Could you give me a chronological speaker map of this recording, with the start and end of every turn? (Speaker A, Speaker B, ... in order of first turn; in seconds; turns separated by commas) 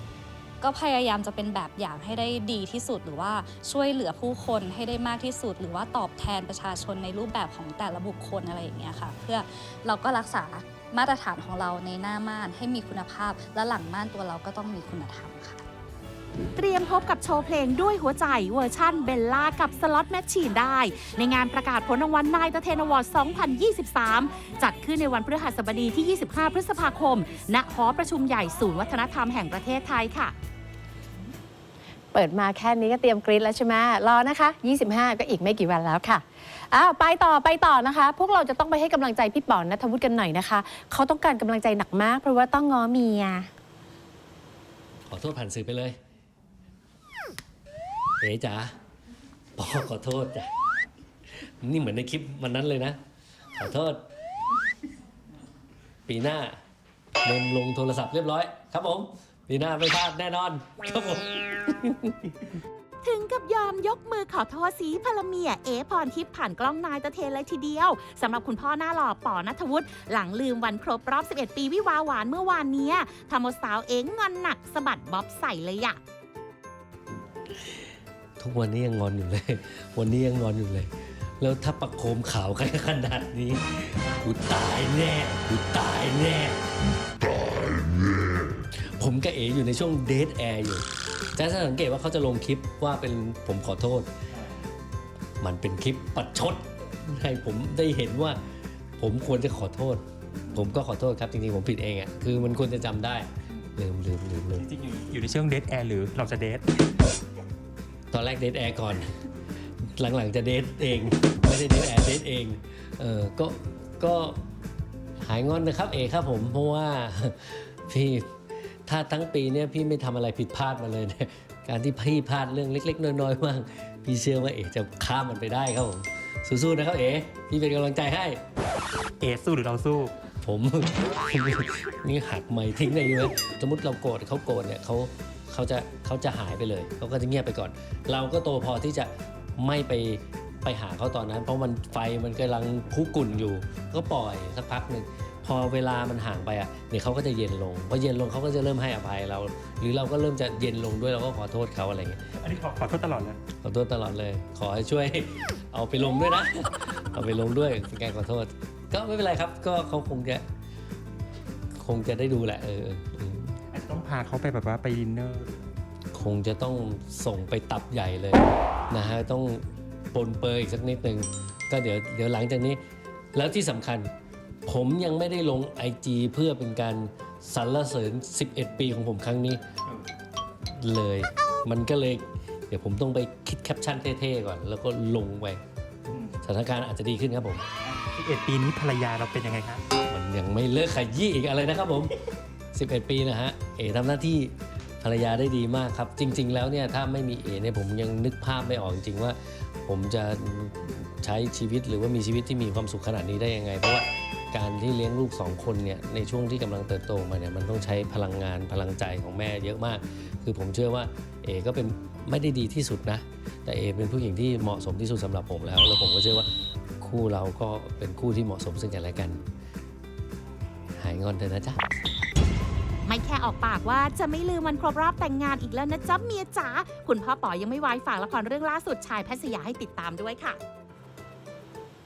Speaker A: 0.6-15.7, Speaker B: 16.6-30.3, Speaker C: 32.1-43.5, Speaker D: 45.1-46.0, Speaker D: 48.2-48.8, Speaker D: 49.6-50.5, Speaker D: 51.4-53.0, Speaker D: 53.5-54.0, Speaker D: 56.1-56.6, Speaker D: 57.2-62.3, Speaker B: 63.0-76.0, Speaker D: 77.6-77.9, Speaker D: 78.4-86.6, Speaker D: 87.2-94.1, Speaker D: 95.4-98.4, Speaker D: 99.0-104.7, Speaker E: 104.6-106.6, Speaker D: 108.1-109.1, Speaker D: 109.9-114.4, Speaker D: 115.2-118.3, Speaker D: 118.9-128.4, Speaker E: 129.2-130.1, Speaker D: 130.4-152.2, Speaker E: 152.4-153.4, Speaker D: 153.6-160.4, Speaker D: 161.8-163.6, Speaker E: 163.7-165.6, Speaker D: 166.1-172.8, Speaker D: 173.3-174.1, Speaker D: 174.7-179.6, Speaker D: 180.8-185.6, Speaker D: 186.4-187.7, Speaker E: 188.2-189.8, Speaker D: 190.1-192.1, Speaker D: 192.7-216.5, Speaker D: 217.0-219.4, Speaker D: 221.0-221.8, Speaker B: 223.1-230.6